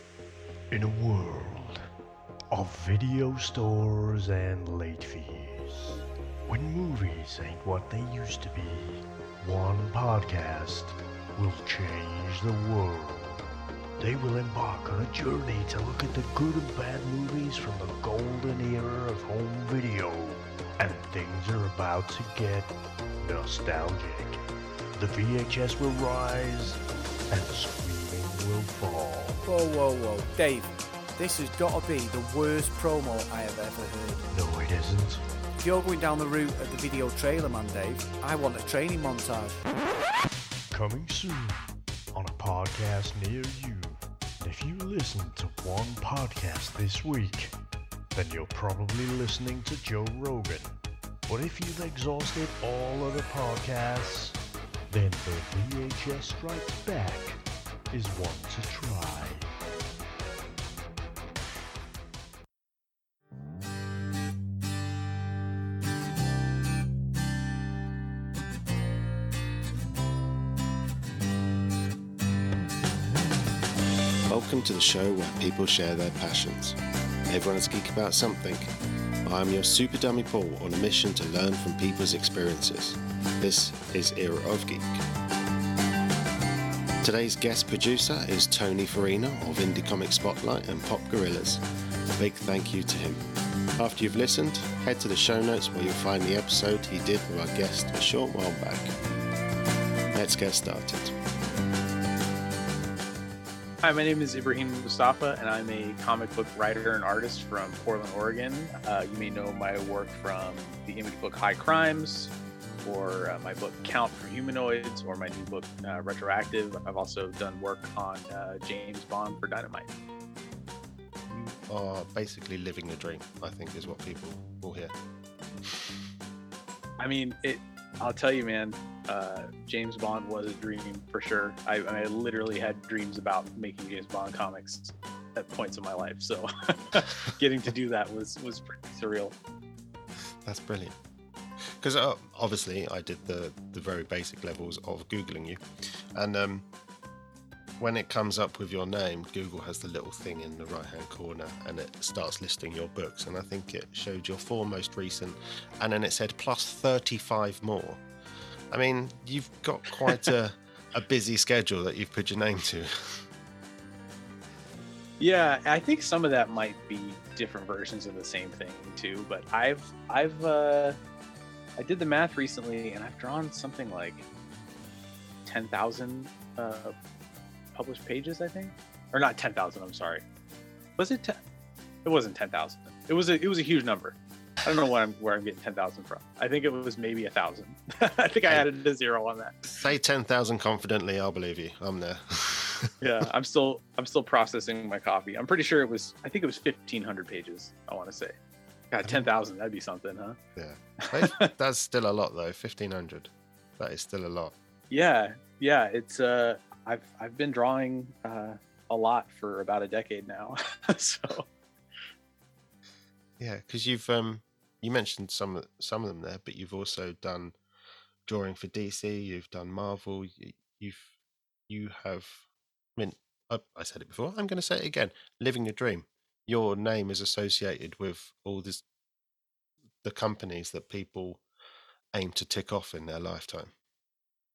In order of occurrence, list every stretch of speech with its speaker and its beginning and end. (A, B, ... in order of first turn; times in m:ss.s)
0:00.7-0:01.8 A
0:02.5-0:13.4 A
0:14.0-0:24.4 A
0:25.0-0:29.4 A
0:29.4-0:34.3 B
0:34.3-0:35.2 A
0:35.6-0:39.6 B
0:40.7-0:47.5 A
0:48.1-0:50.7 A
0:51.3-0:54.4 A
0:54.9-0:59.5 A
1:14.3-1:18.7 C
1:19.2-1:25.0 C
1:27.0-1:31.6 C
1:32.1-1:33.2 C
1:33.8-1:38.9 C
1:40.1-1:41.2 C
1:43.8-1:59.9 D
2:01.3-2:04.9 C
2:07.0-2:19.4 D
2:20.4-2:21.0 C
2:21.6-2:26.7 C
2:27.8-2:38.0 C
2:38.7-2:43.3 C
2:45.2-2:51.0 D
2:51.8-2:54.3 D
2:55.4-2:57.0 D
2:57.8-3:00.2 D
3:01.0-3:01.4 D
3:02.0-3:09.6 D
3:09.7-3:12.9 C
3:13.0-3:18.4 D
3:18.9-3:20.4 D
3:20.6-3:24.6 C
3:21.0-3:21.5 D
3:24.9-3:31.5 D
3:33.4-3:37.6 C
3:38.3-3:41.1 C
3:41.7-3:42.4 C
3:43.0-3:48.8 C
3:50.0-3:51.4 C
3:52.1-3:53.7 C